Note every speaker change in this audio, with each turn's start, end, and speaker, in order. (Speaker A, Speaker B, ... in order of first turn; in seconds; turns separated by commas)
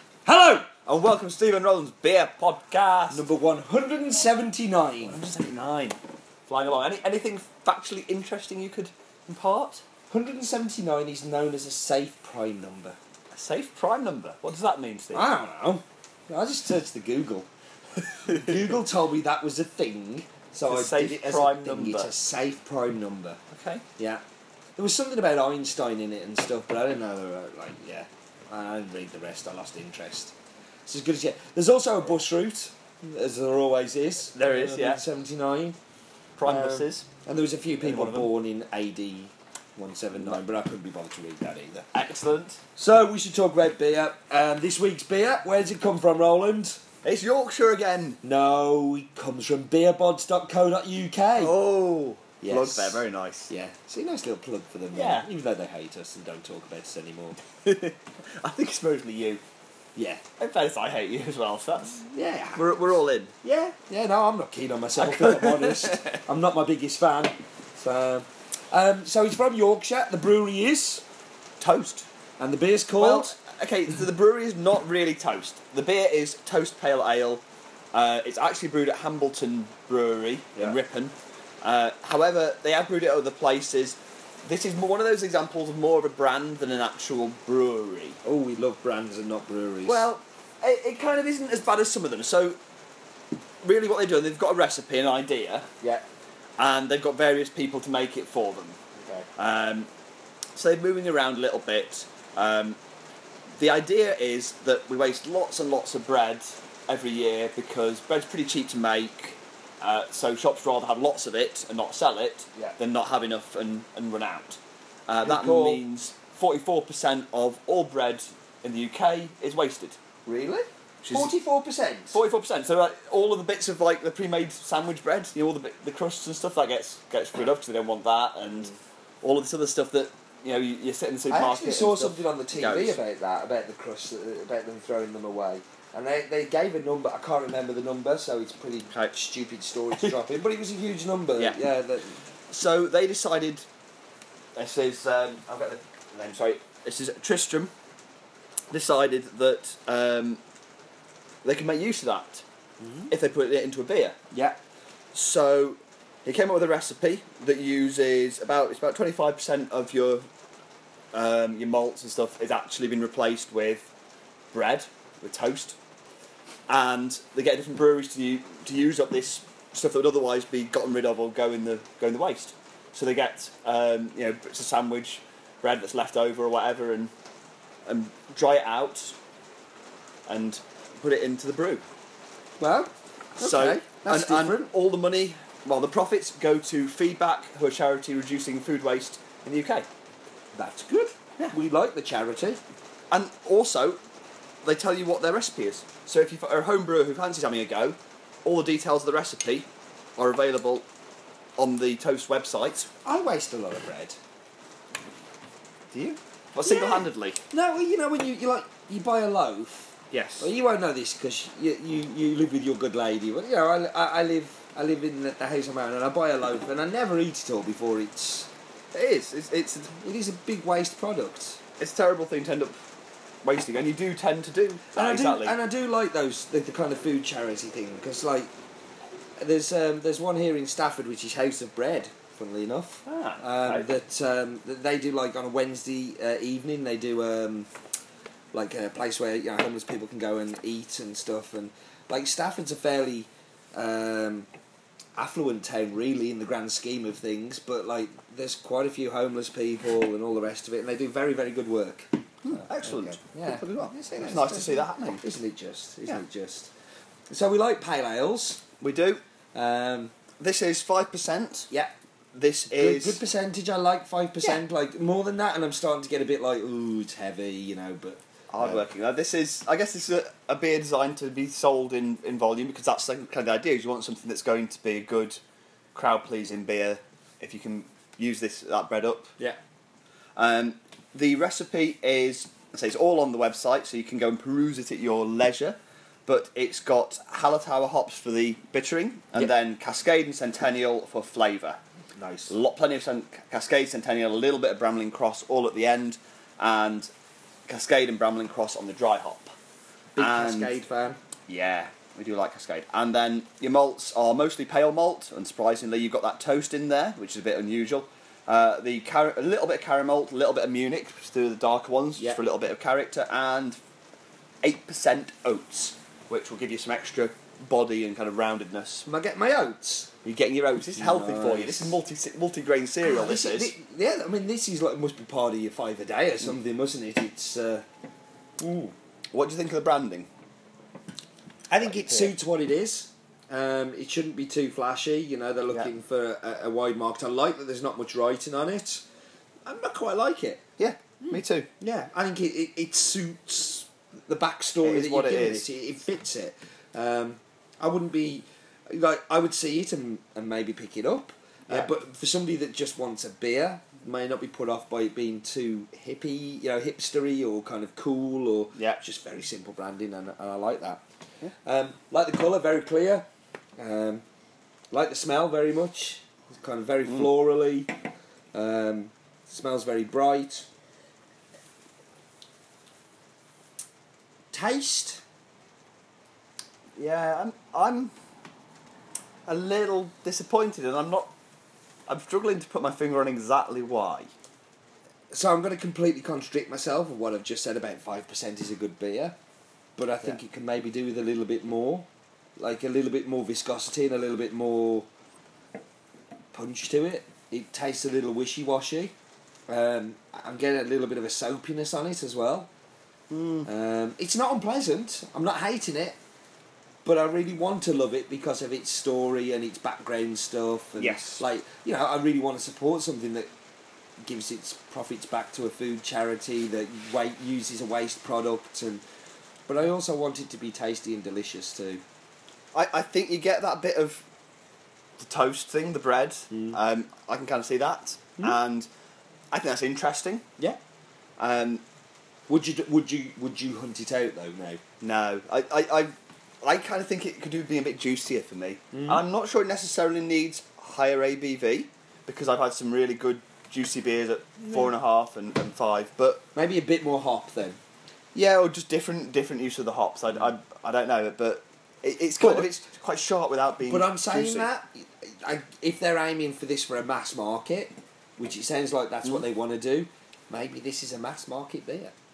Speaker A: 0.3-0.7, Speaker B: 0.8-3.3, Speaker A: 3.1-5.2, Speaker B: 5.1-9.8, Speaker A: 10.1-13.0, Speaker B: 13.3-15.3, Speaker A: 15.1-17.5, Speaker B: 18.3-18.6, Speaker A: 18.3-23.4, Speaker B: 20.7-22.1, Speaker B: 23.5-23.8, Speaker A: 24.0-24.2, Speaker A: 24.8-30.3, Speaker A: 30.9-35.8, Speaker B: 34.3-35.0, Speaker B: 36.4-37.1, Speaker A: 36.5-41.9, Speaker B: 37.8-38.3, Speaker B: 41.9-42.6, Speaker A: 42.8-46.8, Speaker B: 47.0-48.2, Speaker A: 48.2-51.6, Speaker B: 51.4-53.5, Speaker A: 52.4-57.4, Speaker B: 54.9-55.3, Speaker B: 57.6-59.4, Speaker A: 60.0-60.2, Speaker B: 60.4-62.0, Speaker A: 62.0-71.0, Speaker B: 62.6-63.3, Speaker B: 65.0-66.2, Speaker B: 71.6-72.1, Speaker A: 72.4-73.4, Speaker B: 73.0-88.2, Speaker A: 88.2-90.1, Speaker B: 89.8-92.6, Speaker B: 93.6-95.7, Speaker B: 96.6-98.8, Speaker A: 99.0-99.3, Speaker B: 99.4-99.9, Speaker B: 100.5-102.8, Speaker B: 103.6-120.0, Speaker A: 115.2-115.8, Speaker A: 120.3-122.2, Speaker B: 121.0-121.3, Speaker B: 122.1-133.0, Speaker A: 131.3-142.2, Speaker B: 142.5-143.7, Speaker B: 144.6-147.7, Speaker B: 148.7-150.4, Speaker B: 151.4-152.4, Speaker A: 152.8-153.1, Speaker B: 153.1-154.2, Speaker B: 155.1-160.3, Speaker B: 161.1-163.9, Speaker B: 164.5-165.8, Speaker B: 166.7-177.1, Speaker B: 177.9-179.2, Speaker B: 180.3-181.8, Speaker A: 182.6-184.7, Speaker B: 183.4-189.9, Speaker A: 190.5-192.6, Speaker B: 193.1-194.0, Speaker B: 194.6-200.8, Speaker B: 201.6-202.9, Speaker A: 203.1-204.2, Speaker B: 205.9-207.4, Speaker A: 206.7-218.5, Speaker B: 210.1-210.5, Speaker B: 218.9-219.9, Speaker A: 220.0-221.6, Speaker B: 221.8-222.8, Speaker B: 223.4-225.6, Speaker A: 224.9-228.5, Speaker A: 229.4-237.7, Speaker B: 233.1-233.9, Speaker A: 238.5-244.5, Speaker A: 245.2-256.7, Speaker B: 252.4-255.2, Speaker A: 257.3-258.6, Speaker B: 258.8-259.2, Speaker A: 259.6-260.1, Speaker B: 260.4-261.7, Speaker B: 262.3-263.2, Speaker A: 262.7-268.8, Speaker B: 268.5-275.4, Speaker B: 275.9-279.4, Speaker B: 280.4-291.8, Speaker A: 292.2-292.6, Speaker B: 292.5-297.1, Speaker B: 297.7-299.5, Speaker A: 300.2-301.2, Speaker B: 300.2-300.8, Speaker B: 301.5-313.8, Speaker B: 314.6-319.1, Speaker A: 319.1-320.1, Speaker B: 320.2-323.7, Speaker A: 320.9-322.0, Speaker A: 323.0-327.9, Speaker A: 328.6-328.9, Speaker B: 329.3-330.3, Speaker A: 331.7-339.1, Speaker B: 331.8-332.4, Speaker A: 339.6-340.6, Speaker B: 340.8-341.7, Speaker A: 341.2-361.0, Speaker B: 344.8-345.7, Speaker B: 358.8-359.0, Speaker A: 361.6-363.3, Speaker A: 363.8-364.2, Speaker A: 364.9-367.9, Speaker A: 368.5-370.7, Speaker A: 374.5-375.2, Speaker B: 377.0-378.1, Speaker B: 379.5-381.3, Speaker B: 382.1-384.3, Speaker A: 385.3-389.4, Speaker A: 390.0-395.1, Speaker A: 396.5-399.1, Speaker A: 399.7-402.7, Speaker B: 403.3-403.7, Speaker A: 403.6-406.2, Speaker A: 407.1-413.5, Speaker B: 411.0-411.4, Speaker A: 414.2-419.0, Speaker A: 419.7-422.0, Speaker B: 422.7-424.3, Speaker B: 425.2-428.9, Speaker A: 426.5-426.8, Speaker B: 429.5-430.5, Speaker B: 431.4-431.8, Speaker A: 432.5-434.8, Speaker B: 435.0-446.4, Speaker A: 438.9-439.2, Speaker A: 444.6-444.9, Speaker A: 446.6-447.8, Speaker B: 448.4-454.7, Speaker A: 452.4-452.7, Speaker A: 453.9-462.1